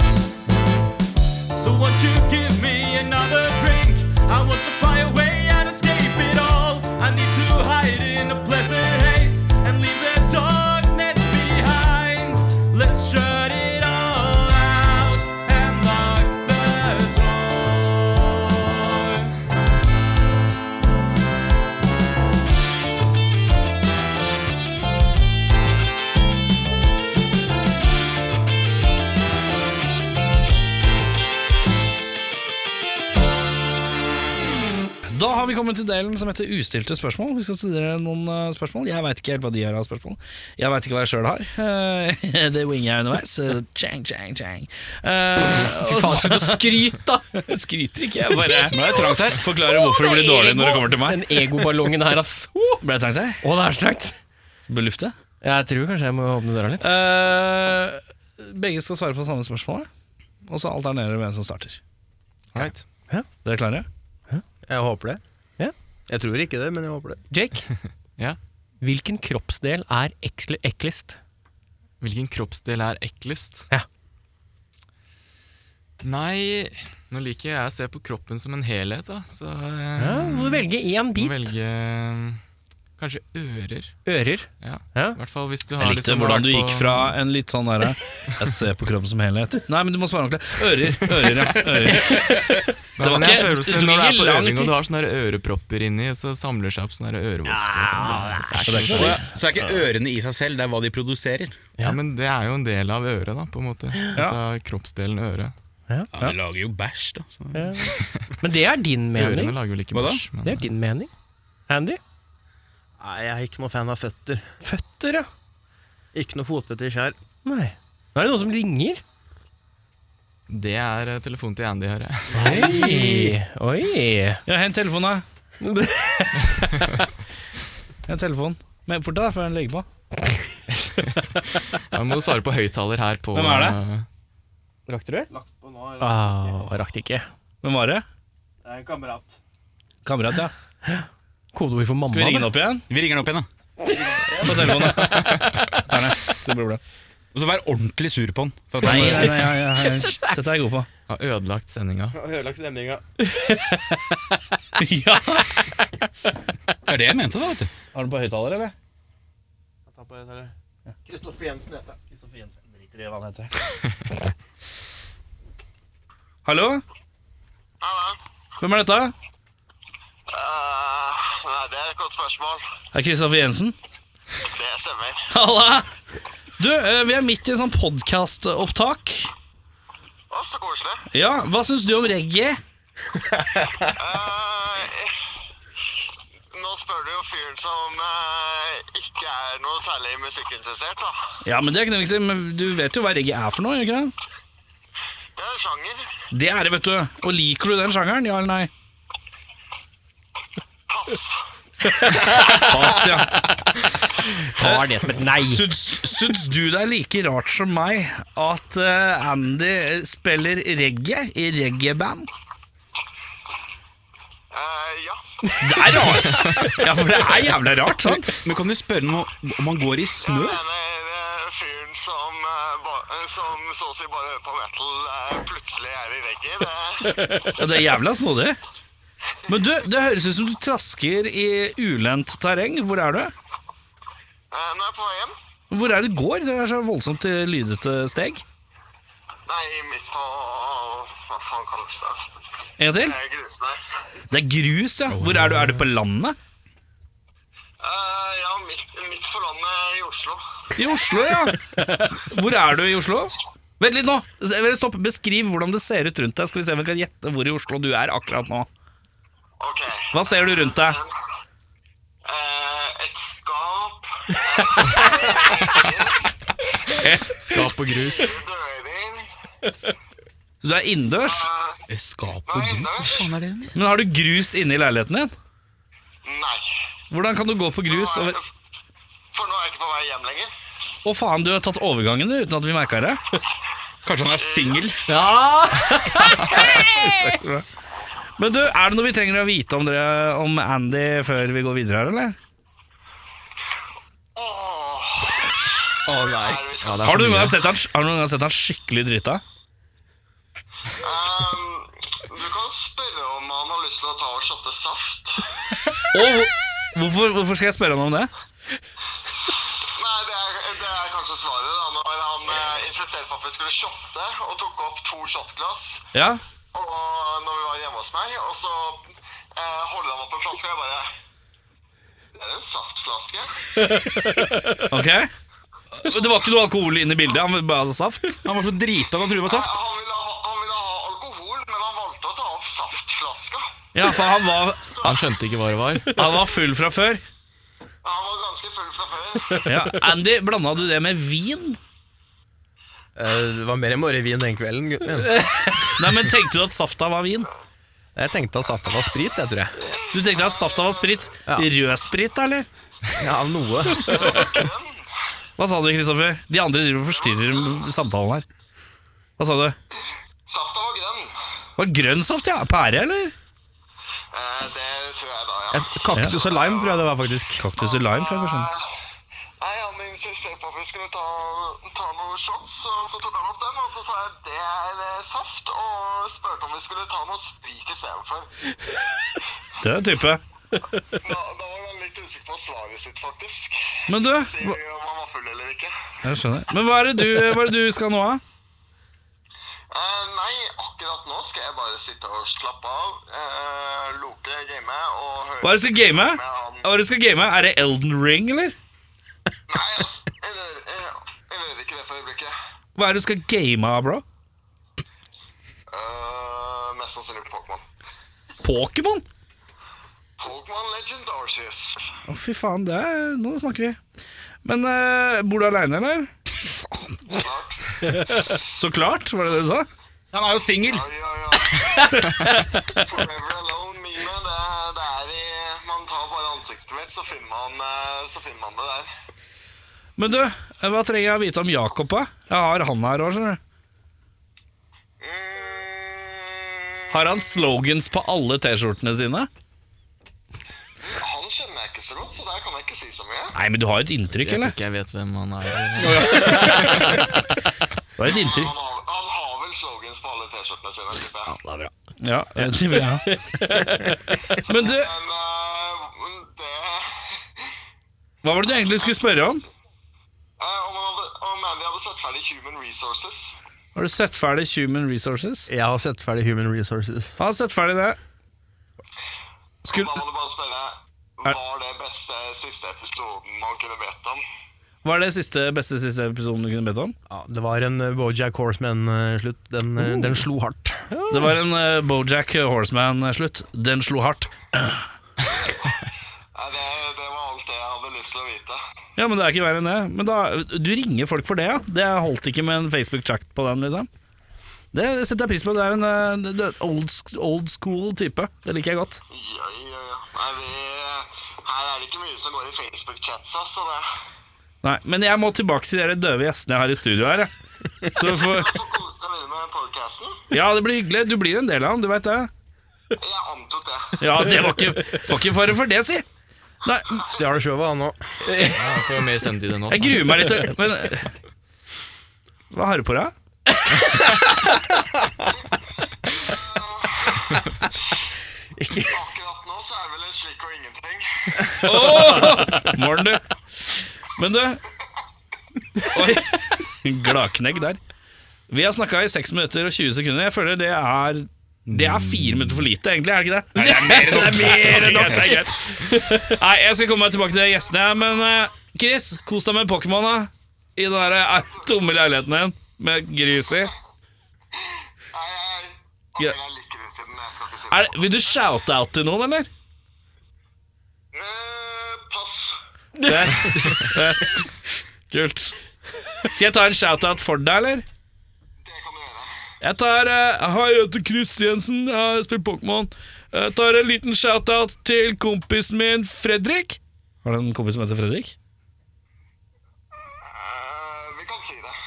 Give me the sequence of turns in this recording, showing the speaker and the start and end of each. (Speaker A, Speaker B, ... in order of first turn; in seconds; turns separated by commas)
Speaker A: 1.5-19.3, Speaker B: 35.1-51.4, Speaker C: 45.4-47.3, Speaker D: 48.7-49.4, Speaker C: 49.7-52.8, Speaker B: 52.8-53.4, Speaker C: 53.4-54.1, Speaker B: 54.7-55.1, Speaker C: 55.4-56.9, Speaker B: 56.8-59.9, Speaker B: 60.5-61.8, Speaker B: 63.4-63.9, Speaker E: 64.7-65.2, Speaker E: 66.1-67.2, Speaker C: 67.3-67.7, Speaker C: 68.8-71.2, Speaker F: 72.0-73.7, Speaker F: 76.0-82.4, Speaker C: 80.0-81.5, Speaker F: 83.0-84.0, Speaker C: 84.0-85.2, Speaker F: 84.6-87.1, Speaker B: 85.8-94.7, Speaker F: 91.0-92.2, Speaker F: 93.0-99.2, Speaker B: 97.6-99.2, Speaker C: 98.0-98.8, Speaker D: 98.9-101.6, Speaker F: 101.8-105.5, Speaker D: 106.1-107.9, Speaker C: 107.5-109.6, Speaker F: 109.1-110.7, Speaker D: 109.9-110.2, Speaker C: 110.4-111.1, Speaker C: 111.7-112.0, Speaker E: 113.0-114.4, Speaker C: 114.6-115.3, Speaker E: 116.1-117.2, Speaker C: 117.4-119.0, Speaker F: 120.5-122.6, Speaker E: 122.3-123.4, Speaker C: 122.3-124.4, Speaker B: 124.5-125.2, Speaker C: 125.6-126.9, Speaker B: 128.1-129.9, Speaker F: 130.8-134.1, Speaker B: 133.3-133.8, Speaker C: 134.9-135.3, Speaker E: 135.3-136.8, Speaker C: 136.0-137.3, Speaker B: 137.6-138.0, Speaker E: 138.6-139.4, Speaker B: 140.0-140.5, Speaker C: 140.8-142.5, Speaker B: 142.1-142.8, Speaker D: 142.9-143.5, Speaker E: 143.9-145.0, Speaker B: 144.4-146.8, Speaker F: 145.1-145.6, Speaker D: 147.3-149.6, Speaker B: 148.8-150.9, Speaker F: 151.1-152.2, Speaker E: 152.1-153.0, Speaker C: 153.3-153.8, Speaker B: 154.8-155.7, Speaker D: 156.9-157.7, Speaker B: 157.9-158.7, Speaker E: 159.9-160.5, Speaker E: 161.1-162.0, Speaker B: 162.1-163.5, Speaker B: 166.4-166.8, Speaker G: 167.8-168.2, Speaker B: 168.6-169.1, Speaker G: 170.3-172.6, Speaker B: 172.9-173.7, Speaker G: 174.4-175.3, Speaker B: 175.3-175.9, Speaker B: 176.6-179.3, Speaker G: 180.3-181.1, Speaker B: 181.1-182.6, Speaker G: 184.0-185.2, Speaker G: 186.5-191.2, Speaker B: 191.4-194.1, Speaker G: 195.4-196.1, Speaker B: 196.3-198.7, Speaker G: 200.9-201.4, Speaker C: 202.0-203.4, Speaker B: 202.2-203.5, Speaker C: 204.2-205.6, Speaker B: 204.6-212.3, Speaker G: 214.5-215.2, Speaker B: 215.6-218.3, Speaker F: 216.2-216.8, Speaker D: 218.1-220.6, Speaker G: 220.2-227.5, Speaker B: 227.5-228.6, Speaker B: 229.5-233.3, Speaker G: 234.5-235.3, Speaker B: 235.7-238.4, Speaker G: 239.5-242.3, Speaker B: 242.8-243.2, Speaker G: 242.9-243.8, Speaker B: 244.3-246.4, Speaker D: 245.1-245.9, Speaker G: 247.8-250.4, Speaker B: 250.8-258.7, Speaker G: 259.6-261.1, Speaker B: 260.1-261.0, Speaker G: 262.2-266.3, Speaker F: 267.3-268.4, Speaker G: 267.8-269.3, Speaker B: 270.6-271.5, Speaker G: 271.2-271.8, Speaker D: 271.9-273.8, Speaker G: 272.4-273.3, Speaker B: 273.7-275.3, Speaker G: 276.2-276.6, Speaker B: 277.1-278.4, Speaker G: 277.9-278.4, Speaker G: 279.3-280.5, Speaker B: 281.0-283.2, Speaker D: 284.0-285.0, Speaker G: 284.3-284.9, Speaker C: 285.1-287.4, Speaker B: 286.1-287.6, Speaker B: 288.4-292.4, Speaker G: 294.3-297.1, Speaker D: 296.2-296.5, Speaker F: 296.8-297.6, Speaker B: 297.0-299.4, Speaker G: 301.0-305.5, Speaker B: 306.1-308.3, Speaker G: 309.5-316.1, Speaker B: 316.1-316.4, Speaker G: 316.7-321.1, Speaker G: 322.4-323.5, Speaker C: 323.9-324.8, Speaker B: 324.9-325.3, Speaker B: 325.9-328.4, Speaker G: 326.1-326.4, Speaker D: 328.4-329.7, Speaker G: 329.4-334.2, Speaker B: 333.9-335.1, Speaker G: 334.8-335.2, Speaker F: 335.0-336.3, Speaker B: 336.1-337.2, Speaker G: 338.0-339.7, Speaker B: 339.6-341.8, Speaker E: 343.1-345.5, Speaker C: 345.4-345.7, Speaker B: 345.9-347.5, Speaker E: 348.1-349.8, Speaker G: 349.9-351.2, Speaker B: 350.1-352.7, Speaker E: 353.1-354.4, Speaker G: 354.0-355.0, Speaker B: 355.6-358.4, Speaker G: 357.1-357.8, Speaker B: 359.4-359.7, Speaker G: 360.5-361.3, Speaker B: 361.8-363.3, Speaker G: 364.3-367.1, Speaker E: 365.7-367.6, Speaker B: 367.6-368.7, Speaker G: 367.8-368.9, Speaker G: 369.6-378.5, Speaker B: 379.8-380.4, Speaker G: 381.2-385.9, Speaker B: 384.1-384.8, Speaker B: 386.2-388.4, Speaker G: 389.9-396.9, Speaker B: 395.6-398.8, Speaker G: 399.7-402.5, Speaker B: 403.0-404.2, Speaker G: 405.9-407.8, Speaker B: 408.6-409.2, Speaker G: 410.4-412.1, Speaker B: 412.3-414.0, Speaker B: 414.6-416.3, Speaker G: 417.3-417.8, Speaker B: 418.6-419.9, Speaker D: 420.3-421.1, Speaker G: 420.8-422.1, Speaker B: 422.1-423.0, Speaker G: 422.9-429.1, Speaker B: 430.2-433.6, Speaker G: 435.2-437.5, Speaker B: 437.1-439.5, Speaker G: 441.0-443.5, Speaker B: 443.6-444.7, Speaker F: 444.4-447.4, Speaker B: 446.1-447.3, Speaker C: 446.4-446.8, Speaker B: 448.2-448.7, Speaker G: 448.2-451.6, Speaker C: 451.6-451.9, Speaker B: 452.2-453.2, Speaker C: 453.0-454.4, Speaker G: 454.6-457.7, Speaker B: 454.6-455.1, Speaker B: 458.4-459.6, Speaker G: 458.7-459.7, Speaker G: 460.6-463.6, Speaker B: 463.9-465.7, Speaker E: 465.7-467.3, Speaker B: 467.4-468.2, Speaker B: 469.8-470.1, Speaker G: 469.8-474.4, Speaker B: 475.0-477.1, Speaker E: 477.3-481.0, Speaker C: 481.1-481.6, Speaker B: 481.3-485.1, Speaker G: 486.5-488.8, Speaker B: 489.2-494.1, Speaker B: 494.9-499.2, Speaker G: 499.3-504.1, Speaker B: 504.8-507.5, Speaker B: 508.1-508.7, Speaker G: 508.3-510.4, Speaker B: 510.5-512.5, Speaker G: 513.2-514.2, Speaker B: 514.2-516.2, Speaker C: 514.6-515.2, Speaker B: 516.8-517.3, Speaker E: 517.2-518.2, Speaker C: 518.5-518.8, Speaker F: 518.7-520.5, Speaker B: 519.9-521.3, Speaker B: 522.7-523.3, Speaker E: 524.2-525.5, Speaker G: 526.3-527.7, Speaker E: 528.8-529.2, Speaker G: 529.1-531.7, Speaker B: 531.8-534.8, Speaker B: 536.0-538.0, Speaker B: 538.7-553.9, Speaker D: 541.9-542.9, Speaker D: 543.7-545.7, Speaker C: 543.9-546.3, Speaker G: 554.9-558.3, Speaker B: 557.9-559.7, Speaker G: 561.3-562.8, Speaker C: 563.2-564.2, Speaker B: 563.2-564.7, Speaker F: 563.8-564.1, Speaker B: 565.3-565.8, Speaker B: 566.4-568.0, Speaker G: 568.8-569.5, Speaker B: 569.8-578.5, Speaker G: 580.4-581.9